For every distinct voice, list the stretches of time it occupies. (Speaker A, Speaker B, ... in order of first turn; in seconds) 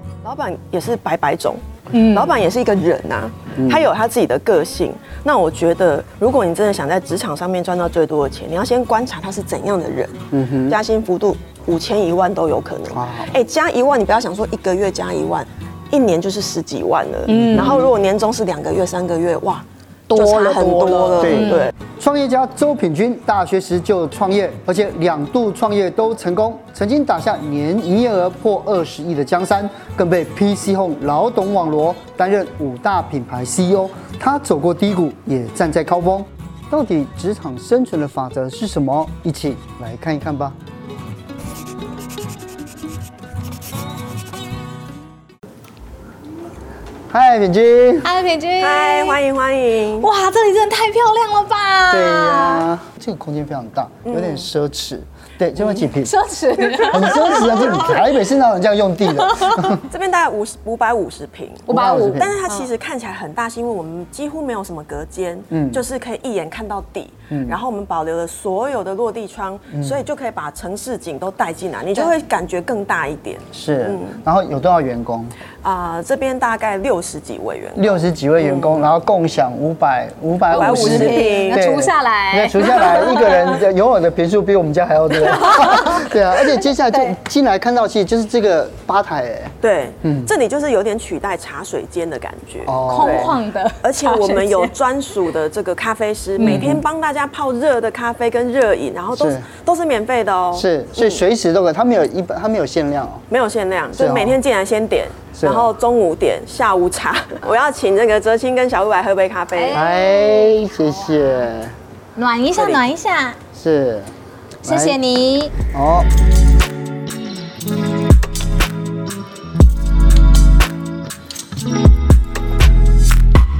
Speaker A: 0.2-21.7, 48.6-50.1, 54.1-54.5, 59.8-74.2, 75.6-78.8, 80.5-81.6, 89.6-101.2, 103.3-109.8, 112.5-112.9
Speaker B: 1.9-2.4, 17.3-17.9, 20.1-21.7, 48.0-49.2, 49.9-52.7, 55.6-58.1, 59.1-59.8, 61.7-62.7, 80.5-83.6, 85.1-87.2, 92.8-94.7, 96.4-96.8, 109.5-111.5, 112.2-113.4, 114.6-115.5
Speaker C: 3.5-3.9, 10.3-10.8, 12.9-13.3, 17.3-17.9, 21.2-40.6, 47.1-48.1, 51.9-56.1, 56.9-59.8, 61.7-62.3, 65.5-65.8, 67.3-67.6, 69.7-70.0, 73.5-75.3, 77.8-90.3, 92.7-93.4, 96.4-96.8, 99.1-99.5, 100.5-103.2, 103.9-104.4, 105.3-105.7, 109.7-111.8, 113.5-115.0, 115.7-116.1